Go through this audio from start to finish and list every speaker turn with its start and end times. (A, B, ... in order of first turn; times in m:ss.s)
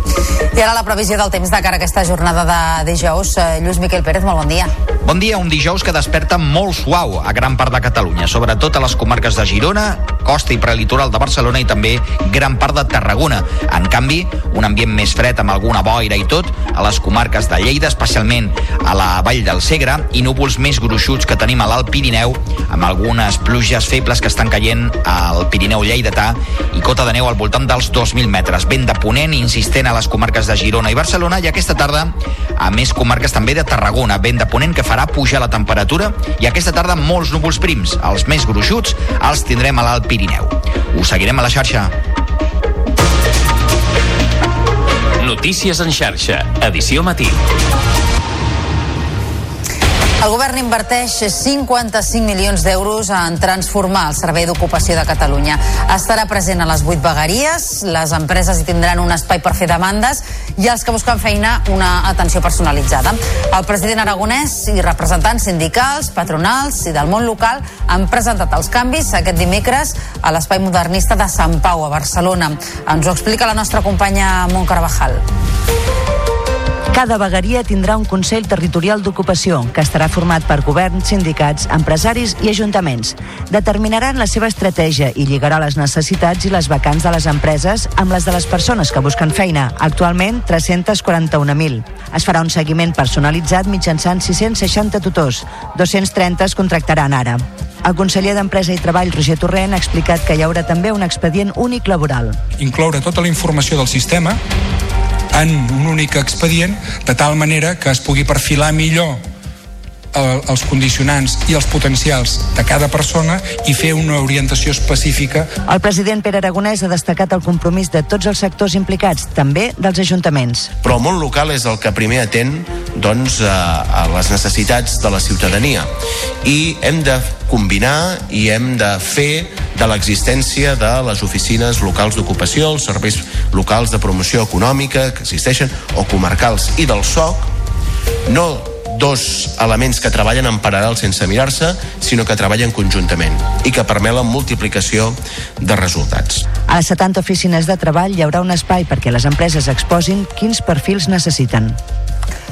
0:00.5-0:04.7 A
0:05.0-0:41.9 B
0:45.2-0:47.4 C
0:50.2-1:15.2 A
1:16.9-1:42.4 D
1:42.6-1:44.4 E
1:45.3-1:49.2 E
1:50.1-1:55.5 E
1:55.7-2:00.7 D
2:00.8-2:05.9 F
2:06.4-2:17.5 F
2:18.3-2:26.4 F
2:26.7-2:31.8 D